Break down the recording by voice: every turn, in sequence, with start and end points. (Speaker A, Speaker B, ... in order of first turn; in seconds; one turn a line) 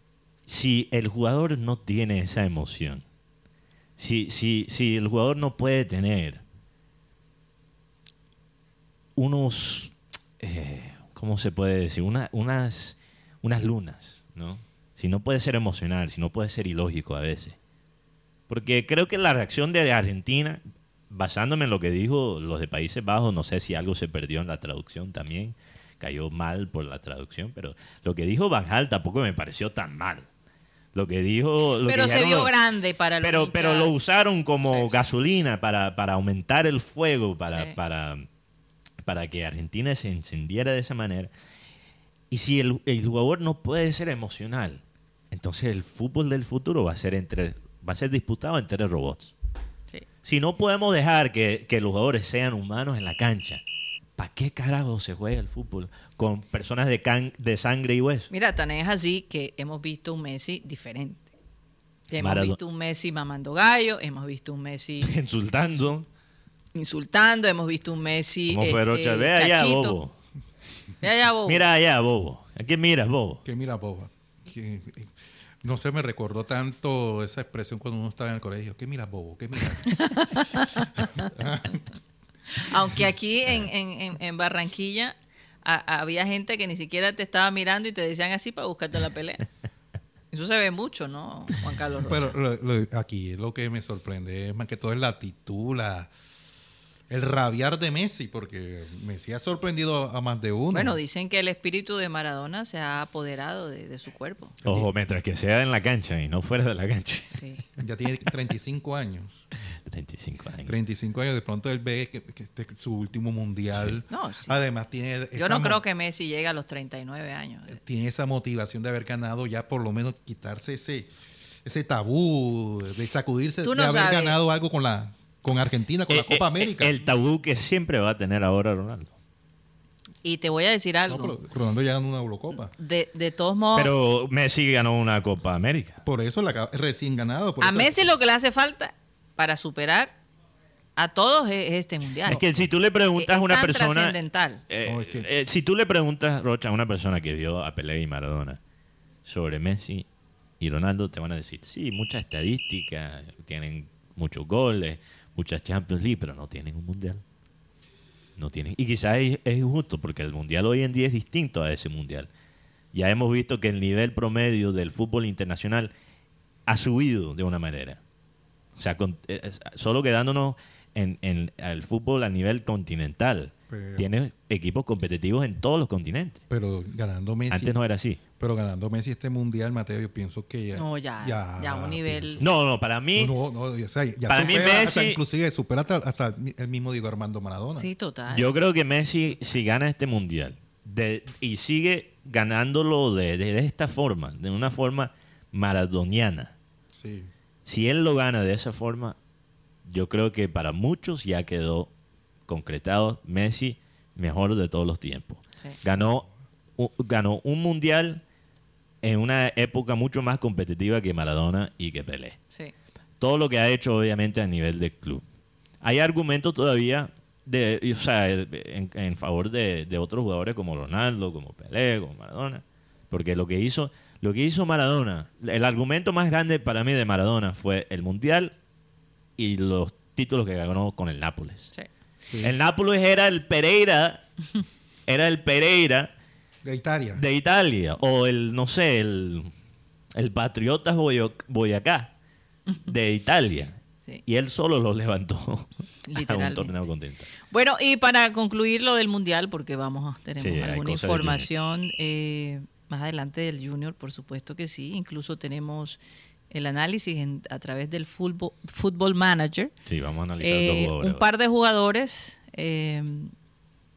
Speaker A: 0.5-3.0
Speaker A: 4.0-6.4
Speaker A: 9.2-17.6
Speaker A: 18.5-30.3
Speaker A: 30.9-32.5
Speaker B: 31.9-34.0
Speaker A: 33.2-38.3
Speaker A: 39.0-41.3
Speaker A: 42.3-49.3
Speaker A: 50.2-53.6
Speaker A: 54.2-58.3
Speaker B: 58.3-61.3
Speaker B: 62.1-65.1
Speaker A: 62.2-62.6
Speaker A: 65.0-66.1
Speaker B: 66.8-70.0
Speaker A: 68.5-70.1
Speaker B: 71.0-71.6
Speaker A: 71.5-73.4
Speaker C: 73.4-80.1
Speaker B: 80.0-80.9
Speaker C: 81.2-81.9
Speaker B: 82.5-89.4
Speaker B: 90.3-92.3
Speaker C: 92.1-96.1
Speaker C: 97.1-101.0
Speaker B: 100.7-104.6
Speaker A: 104.6-107.4
Speaker B: 107.3-107.6
Speaker C: 107.8-109.4
Speaker A: 109.9-110.8
Speaker C: 110.7-115.8
Speaker B: 114.1-114.6
Speaker B: 115.3-117.8
Speaker C: 117.7-126.9
Speaker B: 123.6-124.4
Speaker A: 126.1-129.1
Speaker B: 130.2-131.4
Speaker C: 131.1-132.7
Speaker B: 132.7-133.9
Speaker A: 133.8-136.0
Speaker C: 136.1-138.1
Speaker B: 137.6-140.1
Speaker B: 140.9-142.4
Speaker A: 142.3-144.2
Speaker C: 142.3-142.6
Speaker B: 143.2-144.6
Speaker A: 144.7-148.6
Speaker C: 144.9-145.3
Speaker A: 149.2-150.1
Speaker A: 150.6-157.2
Speaker A: 158.4-162.3
Speaker A: 162.9-165.9
Speaker A: 166.7-168.0
Speaker A: 168.8-176.4
Speaker C: 173.7-174.1
Speaker C: 176.5-177.8
Speaker A: 177.5-178.2
Speaker C: 178.4-182.4
Speaker B: 180.8-182.4
Speaker A: 182.4-183.3
Speaker C: 183.2-187.9
Speaker A: 184.3-185.2
Speaker B: 187.8-188.5
Speaker A: 188.3-196.5
Speaker C: 196.9-197.3
Speaker A: 197.7-199.2
Speaker A: 199.8-201.9
Speaker A: 202.5-208.2
Speaker A: 209.0-212.4
Speaker A: 213.2-215.2
Speaker A: 215.8-228.6
Speaker A: 229.4-231.7
Speaker A: 232.4-234.2
Speaker A: 235.1-236.1
Speaker C: 236.6-237.2
Speaker A: 237.2-239.5
Speaker A: 240.1-242.1
Speaker A: 242.9-247.3
Speaker B: 246.1-246.7
Speaker B: 247.5-259.7
Speaker A: 250.4-251.5
Speaker A: 259.9-261.2
Speaker B: 260.4-263.3